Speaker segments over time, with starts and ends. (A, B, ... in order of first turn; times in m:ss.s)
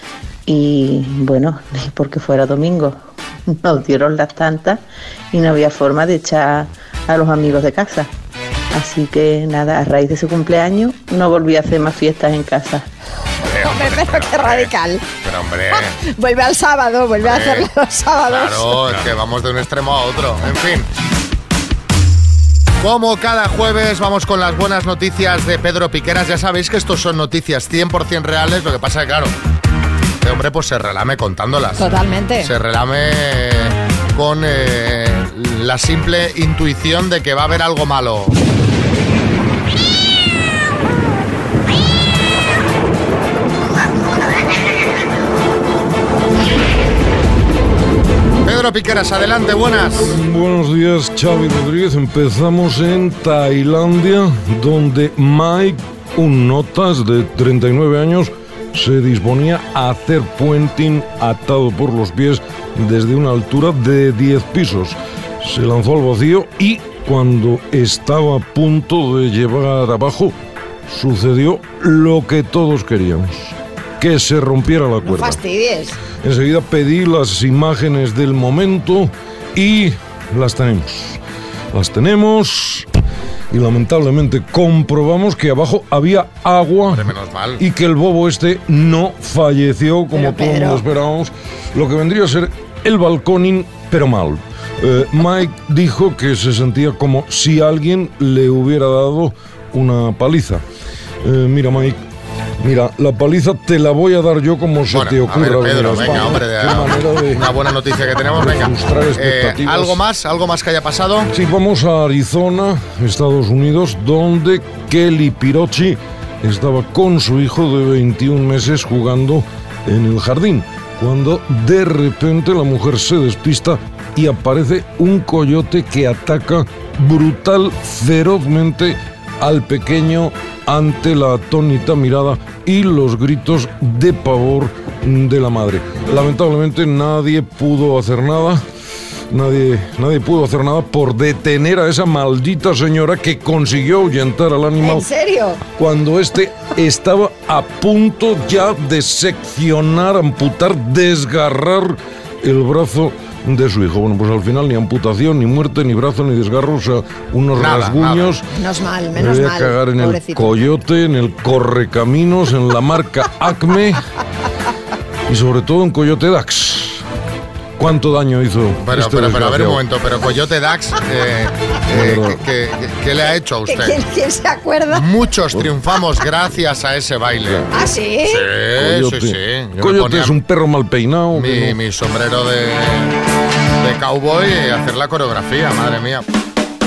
0:00.5-0:08.1 A
0:08.7-0:12.9 A
0:13.4-0:14.7 B
0:13.6-0:15.0 C
0:15.2-0:16.0 B
0:16.0-0:18.7 C
0:17.2-0:17.7 B
0:18.3-0:20.9 B
0:22.8-0:29.3 B
0:30.2-0:38.4 B
0:31.8-0:32.5 C
0:48.4-0:50.2 B
0:50.1-1:10.3 D
1:10.9-1:15.4 D
1:15.0-1:16.0 C
1:16.2-1:21.2 D
1:21.7-1:22.9 D
1:23.5-1:40.6 D
1:26.9-1:27.6 B
1:30.1-1:30.8 C
1:41.2-1:42.0 D
1:42.6-1:47.5 D
1:44.9-1:51.3 B
1:48.4-1:50.0 D
1:51.3-2:18.6 D
2:19.3-2:25.1 D
2:24.8-2:25.6 C
2:25.8-2:38.4 D
2:37.6-2:38.4 B
2:38.5-2:40.5 C
2:39.2-2:44.0 D
2:45.3-2:47.0 D
2:47.8-2:49.8 D
2:48.8-2:54.0 B
2:51.9-2:52.4 D
2:53.7-2:55.0 C
2:54.9-2:57.7 B
2:57.7-2:58.4 C
2:58.3-3:00.4 B
2:58.8-3:01.8 D
3:01.3-3:03.2 B
3:03.8-3:06.2 B